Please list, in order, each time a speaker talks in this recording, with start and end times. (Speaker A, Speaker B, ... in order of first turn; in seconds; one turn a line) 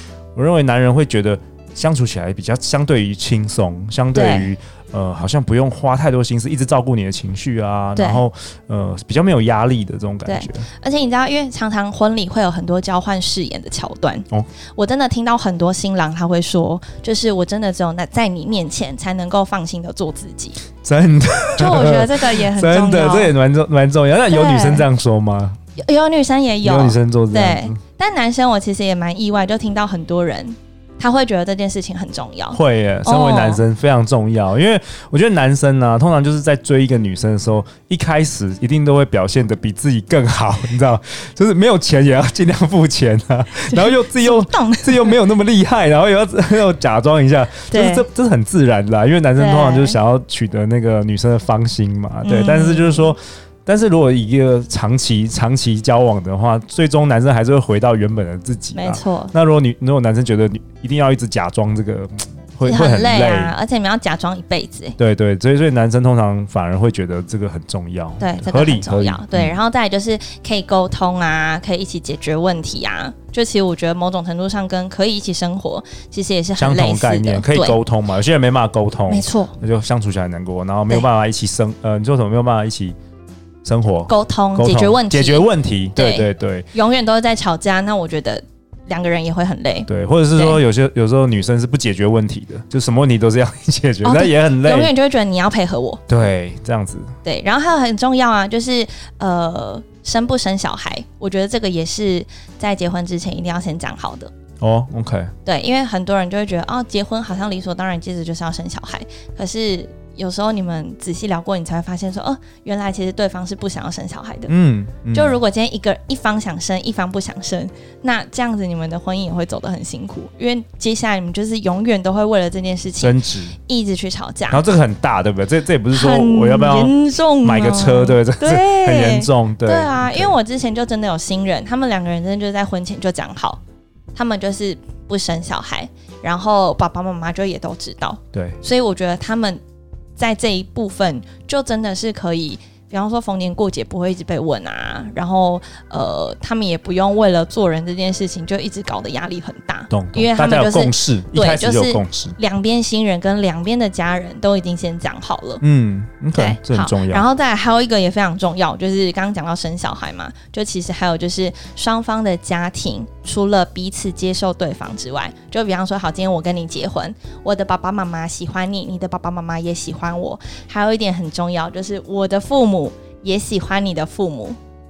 Speaker A: 0.3-10.7
Speaker B: 4.1-4.5
Speaker B: 8.0-8.2
Speaker B: 10.3-20.6
Speaker A: 20.8-25.6
Speaker B: 21.6-23.4
Speaker B: 24.3-24.9
Speaker B: 25.8-33.6
Speaker A: 26.6-27.8
Speaker A: 32.5-63.5
Speaker B: 43.7-45.2
Speaker B: 47.7-48.1
Speaker B: 49.4-50.0
Speaker B: 52.2-53.1
Speaker B: 58.8-59.3
Speaker B: 62.6-65.0
Speaker A: 65.0-69.6
Speaker B: 68.2-77.8
Speaker A: 76.6-83.0
Speaker B: 79.1-79.6
Speaker A: 83.6-86.7
Speaker B: 84.1-90.6
Speaker A: 89.9-94.9
Speaker B: 94.0-96.0
Speaker A: 96.1-97.1
Speaker B: 97.2-104.3
Speaker A: 104.6-105.3
Speaker B: 105.5-114.5
Speaker A: 114.5-115.4
Speaker B: 115.1-124.6
Speaker A: 123.0-123.6
Speaker A: 124.5-130.3
Speaker B: 125.9-133.6
Speaker B: 134.1-139.6
Speaker B: 140.2-155.6
Speaker A: 149.9-152.4
Speaker A: 155.6-157.2
Speaker B: 156.3-174.6